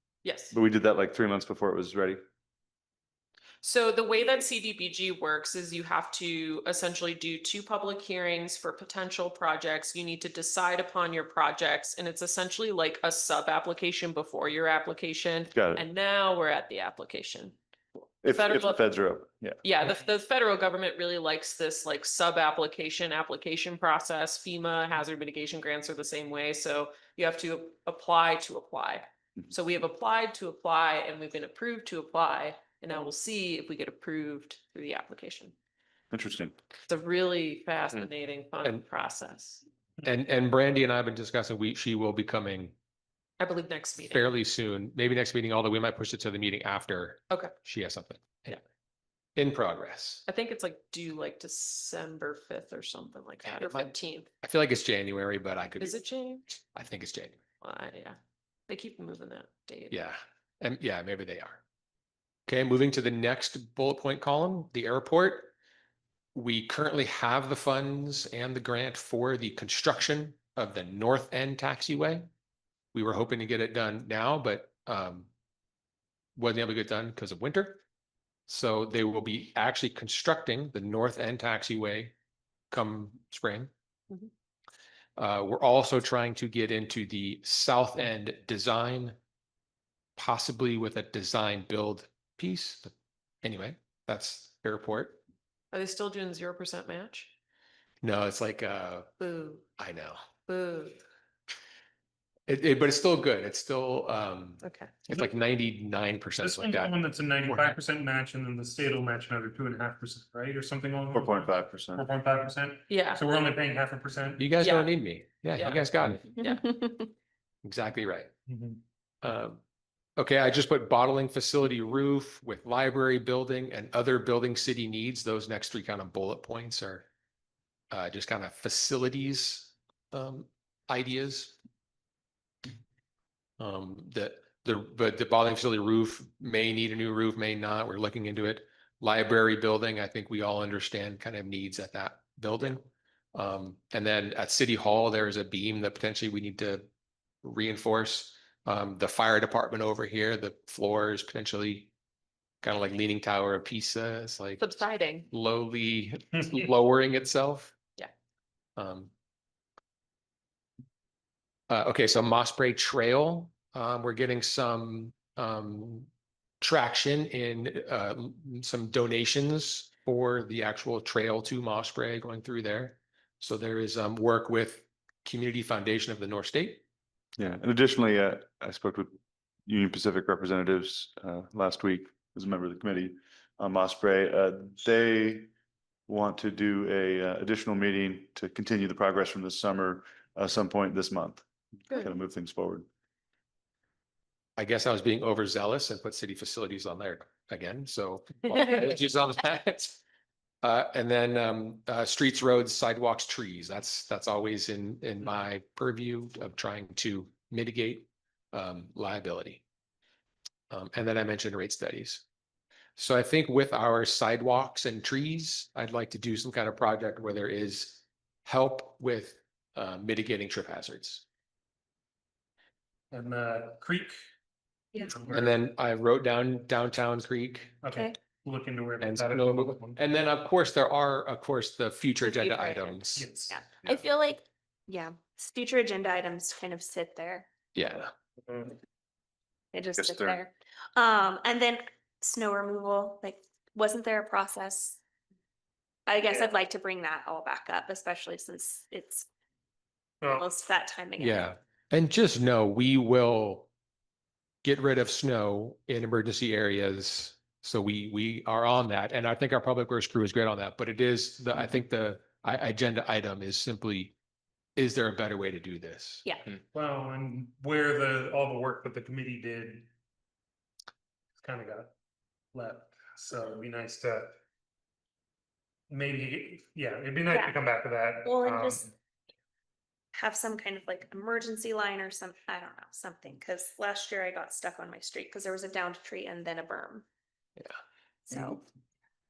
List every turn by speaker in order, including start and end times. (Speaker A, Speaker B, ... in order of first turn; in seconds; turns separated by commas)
Speaker A: 0.2-0.5, Speaker B: 0.5-2.2, Speaker A: 3.6-17.6, Speaker B: 15.5-15.8, Speaker B: 18.2-19.6, Speaker A: 18.3-18.8, Speaker A: 19.6-35.5, Speaker B: 36.1-36.5, Speaker A: 36.9-39.6, Speaker C: 40.0-42.8, Speaker A: 43.4-44.2, Speaker C: 44.1-48.6, Speaker C: 49.4-50.2, Speaker A: 50.3-54.3, Speaker C: 53.5-56.0, Speaker A: 55.8-56.5, Speaker C: 56.7-57.4, Speaker A: 57.6-60.0, Speaker C: 59.9-61.6, Speaker C: 62.5-65.5, Speaker C: 66.3-72.3, Speaker C: 72.9-75.3, Speaker C: 76.4-77.8, Speaker C: 78.5-82.1, Speaker C: 82.7-83.7, Speaker C: 85.2-89.2, Speaker C: 90.2-92.9, Speaker C: 93.4-95.2, Speaker A: 95.7-97.3, Speaker C: 98.0-99.1, Speaker A: 99.2-99.7, Speaker C: 99.8-100.2, Speaker A: 100.5-101.0, Speaker C: 102.5-107.0, Speaker A: 104.6-104.9, Speaker D: 106.4-114.5, Speaker C: 107.5-107.8, Speaker B: 111.1-112.0, Speaker A: 112.9-113.2, Speaker C: 114.4-116.4, Speaker A: 114.6-114.9, Speaker A: 115.6-116.8, Speaker C: 117.6-118.3, Speaker D: 118.5-118.8, Speaker C: 119.2-119.6, Speaker C: 120.2-127.1, Speaker C: 127.9-131.6, Speaker C: 133.6-146.9, Speaker C: 147.4-151.9, Speaker C: 152.6-154.6, Speaker A: 154.6-155.3, Speaker C: 155.3-157.8, Speaker C: 158.8-159.1, Speaker C: 161.7-166.1, Speaker C: 166.6-176.8, Speaker B: 177.4-185.5, Speaker B: 186.1-192.9, Speaker C: 194.6-200.0, Speaker C: 200.6-209.6, Speaker C: 210.7-212.2, Speaker C: 213.0-221.2, Speaker D: 223.1-224.2, Speaker D: 225.1-225.5, Speaker C: 225.3-227.8, Speaker D: 227.8-230.0, Speaker C: 229.0-233.3, Speaker E: 232.2-233.0, Speaker D: 233.2-233.6, Speaker E: 233.5-237.5, Speaker C: 237.8-238.1, Speaker D: 238.5-238.8, Speaker E: 239.7-245.0, Speaker B: 240.0-240.4, Speaker E: 246.1-249.3, Speaker D: 250.2-250.5, Speaker E: 250.3-251.5, Speaker C: 251.2-253.7, Speaker C: 254.6-264.1, Speaker C: 264.8-266.3, Speaker D: 266.7-269.9, Speaker D: 271.4-271.9, Speaker D: 272.5-274.3, Speaker D: 275.9-278.9, Speaker E: 278.2-278.8, Speaker E: 280.1-287.1, Speaker E: 288.3-288.6